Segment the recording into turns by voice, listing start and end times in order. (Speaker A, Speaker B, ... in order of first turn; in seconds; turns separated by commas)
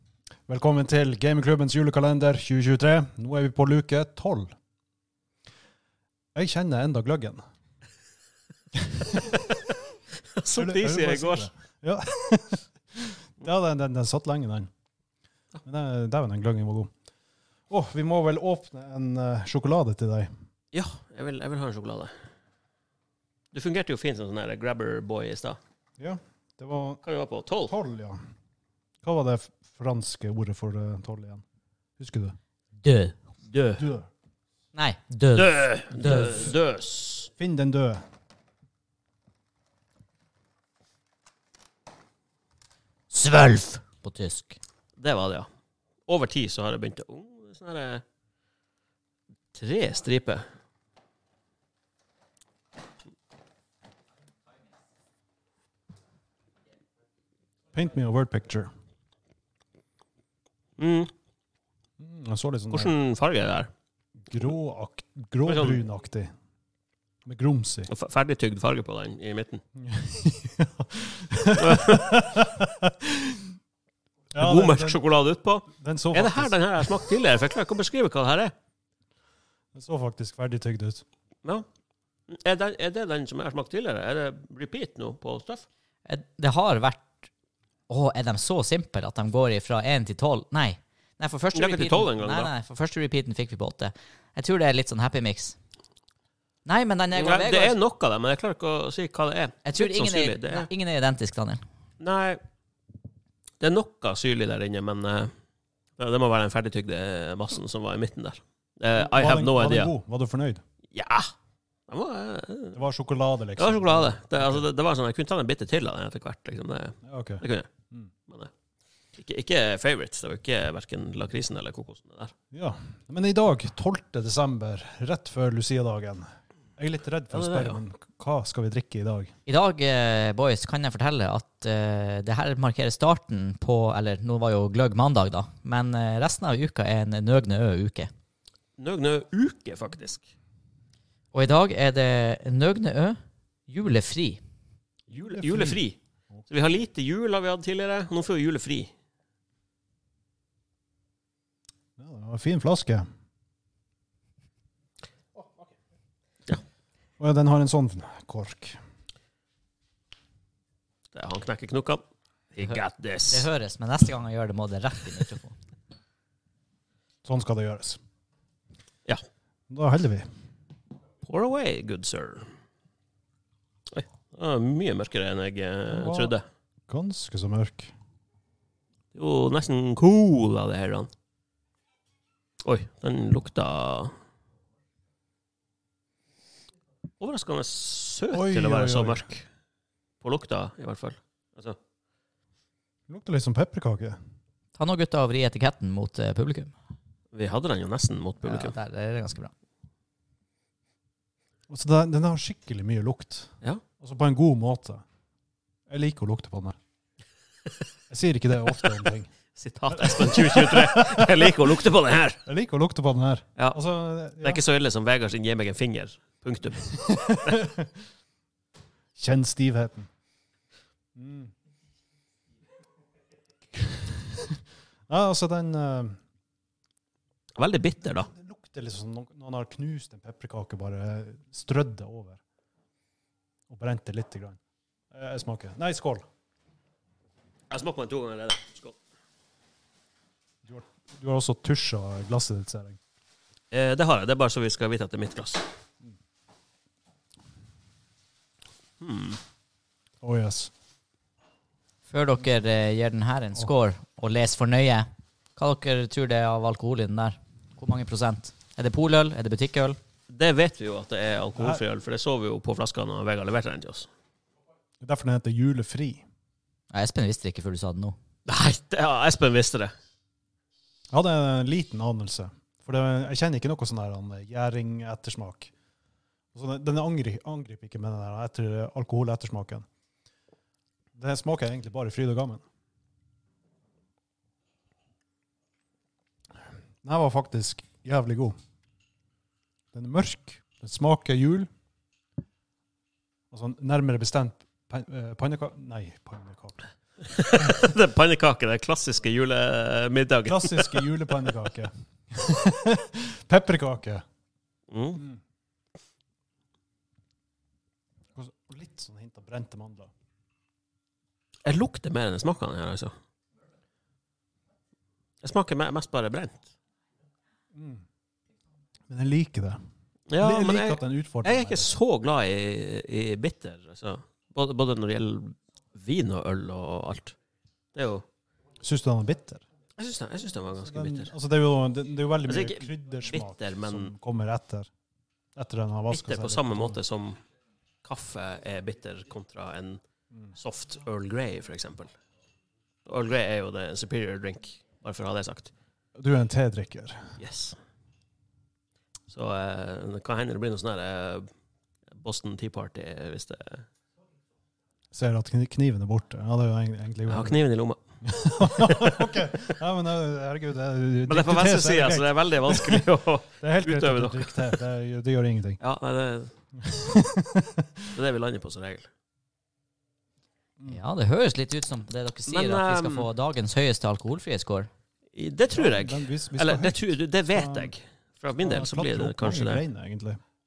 Speaker A: 0.5-4.5, Speaker A: 6.3-7.4, Speaker A: 8.8-9.4, Speaker B: 10.3-11.5, Speaker A: 10.5-14.7, Speaker A: 15.6-16.9, Speaker A: 17.7-20.3, Speaker B: 20.7-22.1, Speaker B: 23.5-25.6, Speaker A: 26.0-27.0, Speaker B: 27.0-27.7, Speaker A: 27.6-28.2, Speaker A: 29.0-31.4, Speaker A: 32.0-32.4, Speaker C: 32.8-33.1, Speaker B: 33.5-33.8, Speaker A: 33.8-34.1, Speaker C: 34.7-36.5, Speaker B: 35.3-37.3, Speaker A: 37.3-38.0, Speaker C: 43.1-44.6, Speaker B: 45.0-45.5, Speaker B: 46.1-48.0, Speaker B: 49.5-50.4, Speaker A: 57.7-58.7, Speaker B: 60.8-61.1, Speaker A: 62.0-62.9, Speaker B: 62.7-63.7, Speaker A: 64.3-66.3, Speaker B: 65.4-65.8, Speaker A: 67.2-67.9, Speaker B: 67.9-69.6, Speaker A: 69.8-73.4, Speaker B: 71.5-72.2, Speaker A: 74.3-75.0, Speaker B: 74.3-78.5, Speaker A: 75.7-77.2, Speaker A: 79.7-81.0, Speaker B: 82.3-85.7, Speaker C: 86.0-87.2, Speaker C: 87.9-95.5, Speaker B: 91.5-92.5, Speaker C: 96.7-97.8, Speaker B: 97.1-100.7, Speaker C: 99.6-101.6, Speaker B: 102.0-102.4, Speaker B: 103.6-105.3, Speaker B: 106.0-109.9, Speaker A: 108.9-110.6, Speaker B: 110.9-111.3, Speaker B: 111.9-112.8, Speaker A: 112.7-114.7, Speaker B: 113.6-117.7, Speaker A: 117.0-118.1, Speaker B: 119.1-122.3, Speaker A: 122.5-129.3, Speaker B: 127.3-127.8, Speaker C: 129.5-138.1, Speaker B: 138.8-140.3, Speaker C: 141.3-143.2, Speaker C: 143.7-144.4, Speaker B: 145.1-148.9, Speaker A: 145.3-145.8, Speaker A: 152.0-153.1, Speaker A: 157.2-158.8, Speaker B: 161.1-163.5, Speaker C: 163.3-165.5, Speaker A: 167.2-168.0, Speaker A: 169.7-170.3, Speaker B: 171.2-172.5, Speaker B: 173.9-176.4, Speaker A: 175.9-176.3, Speaker A: 176.9-177.9, Speaker B: 179.1-181.1, Speaker B: 182.6-184.1, Speaker B: 187.2-189.4, Speaker A: 188.3-189.3, Speaker B: 190.2-191.8, Speaker A: 193.1-194.2, Speaker C: 194.8-196.7, Speaker B: 197.3-198.7, Speaker C: 198.4-199.5, Speaker A: 201.7-205.0, Speaker A: 205.9-206.8, Speaker A: 208.1-209.3, Speaker B: 209.5-212.4, Speaker A: 209.9-211.6, Speaker A: 212.4-214.6, Speaker B: 214.4-217.0, Speaker A: 217.0-217.9, Speaker A: 219.2-220.1, Speaker A: 221.2-221.5, Speaker A: 225.1-226.2, Speaker B: 227.6-228.3, Speaker A: 228.2-232.4, Speaker A: 233.7-234.6, Speaker A: 235.1-236.2, Speaker B: 237.7-239.0, Speaker A: 240.6-243.0, Speaker B: 243.7-245.7, Speaker B: 249.0-249.4, Speaker A: 250.2-250.7, Speaker C: 252.1-260.0, Speaker B: 260.3-264.1, Speaker A: 265.0-266.2, Speaker C: 266.9-268.1, Speaker B: 268.4-269.9, Speaker A: 271.1-275.7, Speaker A: 276.5-279.9, Speaker A: 281.1-282.6, Speaker A: 287.0-288.6, Speaker A: 289.9-291.7, Speaker A: 293.5-296.9, Speaker B: 297.3-301.1, Speaker A: 300.4-304.2, Speaker B: 304.9-305.2, Speaker A: 308.4-310.1, Speaker B: 311.6-313.1, Speaker B: 315.4-316.6, Speaker A: 317.7-318.0, Speaker A: 319.1-319.8, Speaker B: 320.3-327.4, Speaker A: 320.4-321.9, Speaker B: 327.9-328.2, Speaker A: 328.8-329.6, Speaker B: 330.0-331.3, Speaker A: 330.9-334.9, Speaker B: 332.5-334.1, Speaker A: 335.6-337.0, Speaker B: 336.1-337.4, Speaker B: 338.0-340.0, Speaker B: 340.6-342.1, Speaker B: 343.1-345.7, Speaker A: 346.1-347.3, Speaker B: 347.4-347.8, Speaker B: 349.3-351.5, Speaker B: 352.1-353.8, Speaker A: 355.1-357.6, Speaker B: 357.3-358.0, Speaker A: 358.2-363.0, Speaker B: 358.6-359.7, Speaker B: 361.3-364.8, Speaker A: 363.6-365.8, Speaker B: 365.8-366.5, Speaker A: 366.8-367.9, Speaker B: 368.1-369.1, Speaker C: 370.9-374.9, Speaker B: 372.5-373.3, Speaker B: 375.3-379.8, Speaker A: 375.7-377.9, Speaker A: 378.5-380.4